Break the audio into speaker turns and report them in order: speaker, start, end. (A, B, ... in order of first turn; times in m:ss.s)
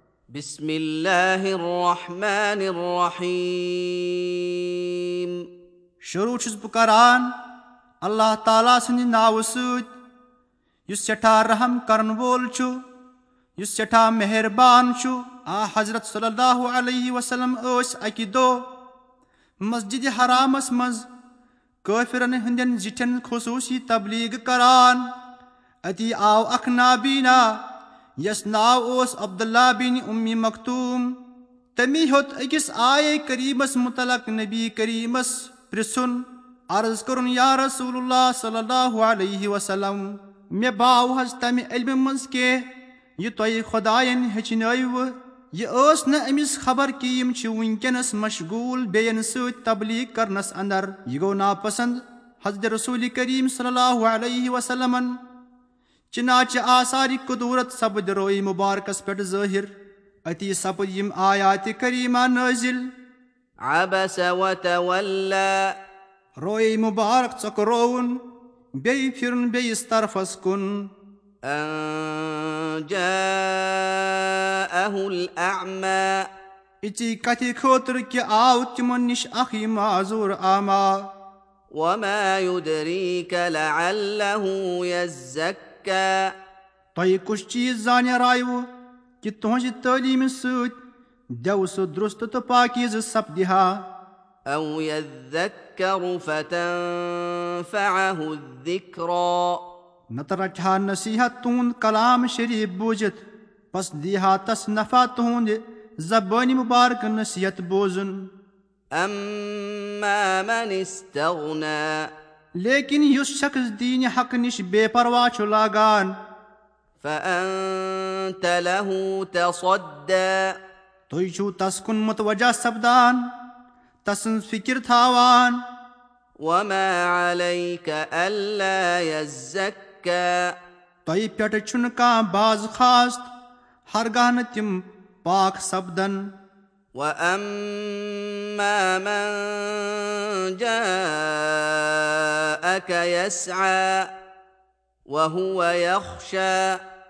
0:00.3-0:05.3 A
0:06.0-0:07.3 B
0:08.0-0:09.9 B
0:10.9-0:12.8 B
0:13.6-0:18.7 B
0:19.6-0:21.1 B
0:21.8-0:25.1 B
0:25.8-0:27.6 B
0:28.2-0:31.2 B
0:31.8-0:42.7 B
0:43.2-0:55.2 B
0:56.1-0:59.7 B
1:00.3-1:02.9 B
1:03.7-1:05.7 A
1:06.4-1:08.2 B
1:08.8-1:10.9 B
1:11.5-1:16.2 A
1:16.8-1:21.1 B
1:21.7-1:26.3 A
1:27.0-1:28.7 B
1:29.2-1:30.8 B
1:31.3-1:33.9 B
1:34.5-1:39.6 A
1:40.1-1:48.3 B
1:49.0-1:52.1 A
1:52.6-1:56.2 B
1:57.0-2:00.5 A
2:01.1-2:03.2 B
2:04.0-2:05.6 B
2:06.4-2:10.5 A
2:11.1-2:13.3 B
2:13.9-2:16.3 B
2:17.0-2:24.1 A
2:25.1-2:26.8 A